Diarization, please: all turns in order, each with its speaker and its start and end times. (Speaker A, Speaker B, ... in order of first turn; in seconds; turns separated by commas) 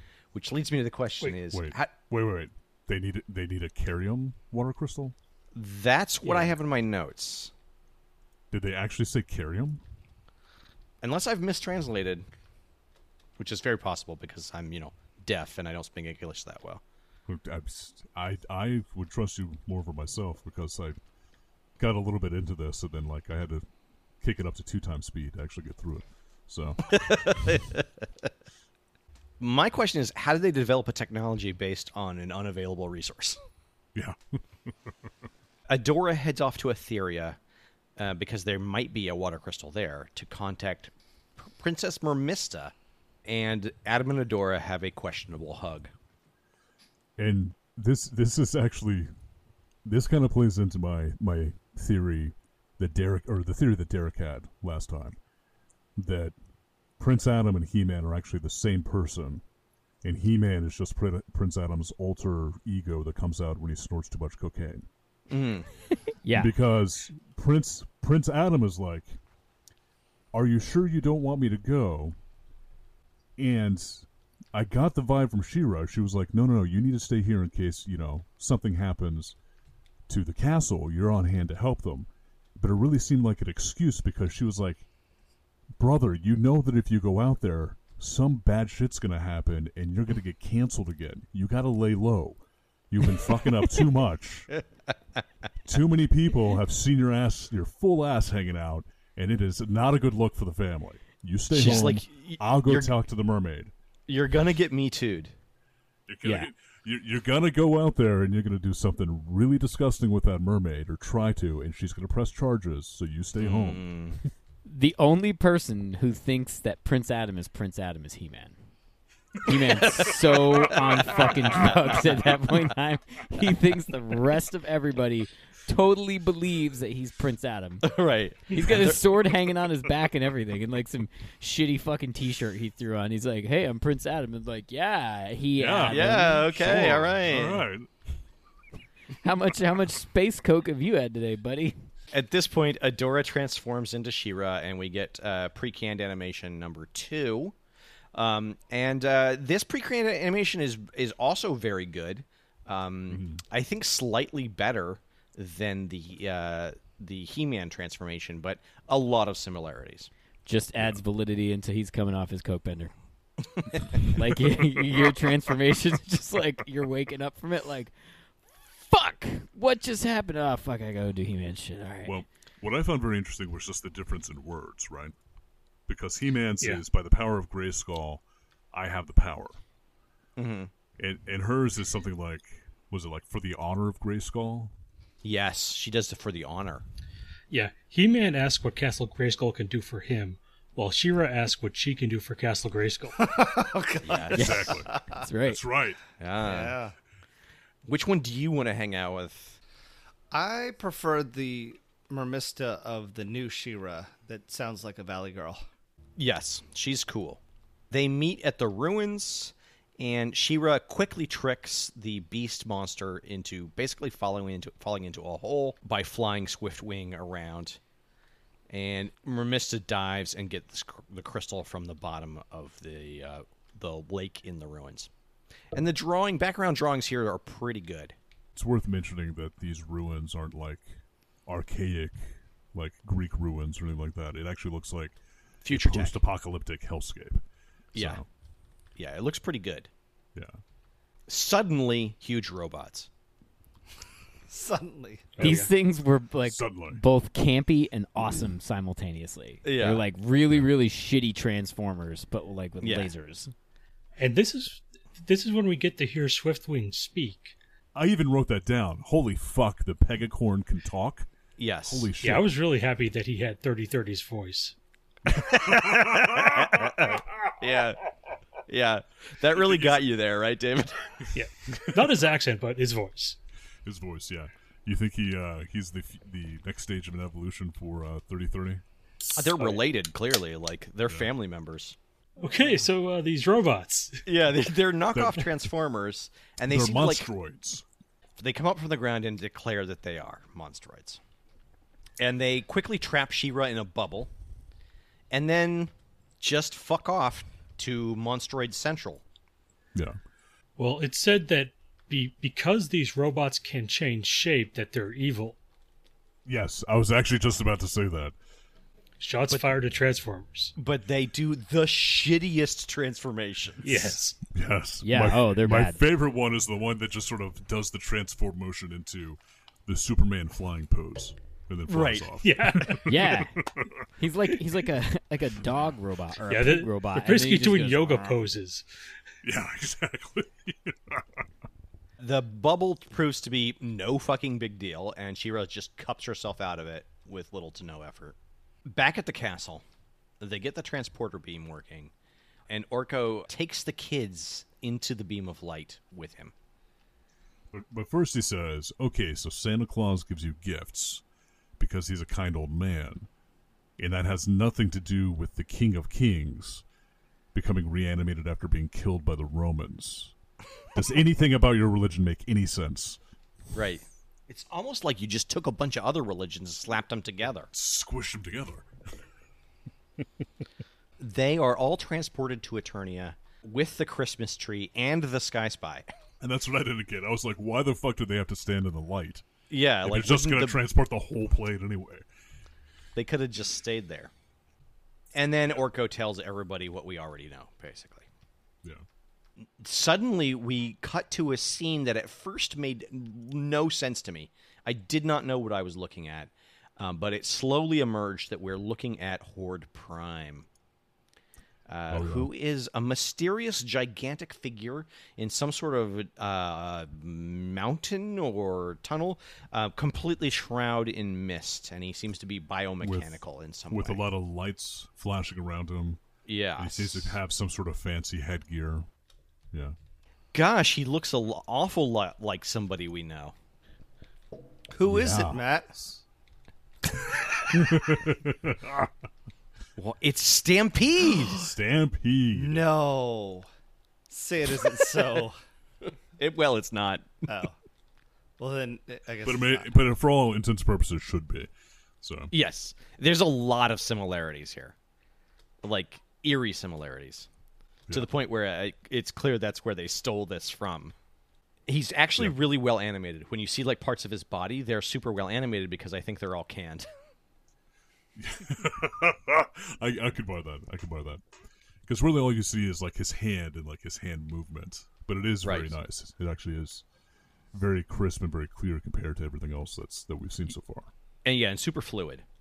Speaker A: 0.3-1.9, Speaker B: 1.5-5.2, Speaker A: 5.5-7.5, Speaker B: 8.5-9.8, Speaker A: 11.0-12.2, Speaker A: 13.4-16.8, Speaker B: 17.3-21.0, Speaker B: 21.8-23.6, Speaker B: 24.2-27.0, Speaker A: 26.9-28.0, Speaker A: 29.4-33.4, Speaker B: 34.0-34.4, Speaker A: 35.7-37.4, Speaker A: 38.0-42.7, Speaker A: 43.2-45.9, Speaker B: 47.2-49.1, Speaker B: 49.9-55.2, Speaker B: 56.0-56.4, Speaker B: 57.0-59.4, Speaker B: 60.0-64.9, Speaker A: 65.3-65.7, Speaker C: 66.2-66.5, Speaker B: 66.4-69.2, Speaker B: 70.3-72.2, Speaker B: 73.4-79.4, Speaker B: 80.1-84.9, Speaker B: 85.8-94.5, Speaker B: 95.7-103.7, Speaker A: 101.5-102.9, Speaker A: 104.1-105.3, Speaker B: 106.1-113.8, Speaker C: 106.2-106.5, Speaker A: 113.4-114.2, Speaker C: 114.7-118.5, Speaker C: 119.4-127.9, Speaker A: 119.5-122.2, Speaker A: 127.8-129.0, Speaker C: 128.5-136.5, Speaker B: 135.6-137.9, Speaker A: 135.9-137.6, Speaker C: 139.2-141.8, Speaker A: 142.1-147.6, Speaker A: 148.1-160.1, Speaker B: 153.1-153.4, Speaker C: 160.5-162.9, Speaker C: 163.9-167.9, Speaker C: 168.8-172.2, Speaker B: 172.0-175.2, Speaker B: 175.9-179.6, Speaker A: 180.4-180.7, Speaker B: 181.0-184.7, Speaker A: 185.2-186.8, Speaker D: 187.5-193.2, Speaker E: 193.2-195.2, Speaker A: 194.0-194.7, Speaker B: 194.3-196.0, Speaker C: 194.3-195.6, Speaker A: 196.2-196.8, Speaker E: 196.4-196.9, Speaker A: 197.8-199.6, Speaker E: 200.3-205.6, Speaker A: 206.2-217.8, Speaker A: 218.7-225.1, Speaker A: 225.7-228.2, Speaker B: 228.6-235.2, Speaker A: 235.6-236.2, Speaker B: 235.7-237.4, Speaker A: 237.9-238.2, Speaker B: 237.9-238.3, Speaker A: 239.0-239.9, Speaker A: 241.3-243.1, Speaker E: 244.5-245.4, Speaker D: 245.4-245.7, Speaker C: 245.4-253.5, Speaker B: 246.4-247.0, Speaker A: 249.6-250.0, Speaker A: 252.8-253.1, Speaker D: 254.2-257.5, Speaker B: 257.9-261.3, Speaker A: 261.6-262.1, Speaker B: 261.9-262.5, Speaker D: 262.2-264.8, Speaker A: 265.3-268.0, Speaker B: 265.7-266.3, Speaker A: 268.7-271.1, Speaker D: 271.3-273.4, Speaker B: 273.9-279.4, Speaker A: 279.4-282.0, Speaker D: 282.4-284.2, Speaker A: 284.3-287.3, Speaker B: 285.1-285.5, Speaker B: 286.7-287.9, Speaker A: 288.4-291.2, Speaker A: 292.2-294.3, Speaker A: 295.3-299.2, Speaker D: 300.8-305.6, Speaker B: 306.4-308.3, Speaker D: 309.2-310.7, Speaker A: 309.5-309.8, Speaker A: 310.8-314.2, Speaker D: 313.8-314.4, Speaker B: 314.5-324.0, Speaker C: 315.0-316.0, Speaker A: 321.9-322.3, Speaker D: 322.4-323.2, Speaker C: 323.1-323.6, Speaker C: 324.2-328.4, Speaker D: 326.5-328.9, Speaker B: 329.4-331.2, Speaker A: 332.2-338.4, Speaker A: 338.9-339.9, Speaker A: 340.4-342.1, Speaker A: 342.7-346.5, Speaker B: 347.7-351.2, Speaker B: 351.8-353.3, Speaker B: 354.0-356.8, Speaker B: 357.5-360.3, Speaker B: 360.9-363.2, Speaker A: 363.7-367.7, Speaker B: 367.7-368.9, Speaker A: 371.2-376.1, Speaker B: 376.4-379.4, Speaker A: 379.7-380.8, Speaker B: 380.0-382.2, Speaker A: 383.2-384.3, Speaker A: 385.3-388.3, Speaker A: 389.6-400.7, Speaker A: 401.9-414.2, Speaker B: 402.1-402.5, Speaker B: 413.0-413.4, Speaker B: 413.9-416.2, Speaker A: 416.5-417.4, Speaker B: 416.8-419.1, Speaker A: 420.5-423.6, Speaker E: 424.9-426.0, Speaker B: 425.0-425.6, Speaker B: 427.7-429.1, Speaker A: 430.0-431.7, Speaker B: 431.5-432.9, Speaker E: 432.5-433.7, Speaker E: 434.3-435.6, Speaker A: 436.4-437.5, Speaker E: 437.5-437.8, Speaker E: 438.6-439.9, Speaker B: 439.4-441.7, Speaker B: 442.2-442.5, Speaker A: 442.5-444.9, Speaker A: 445.8-447.5, Speaker A: 448.1-451.1, Speaker A: 451.9-457.1, Speaker B: 458.4-461.4, Speaker B: 462.1-467.1, Speaker A: 465.6-466.0, Speaker B: 467.7-471.1, Speaker A: 471.4-472.4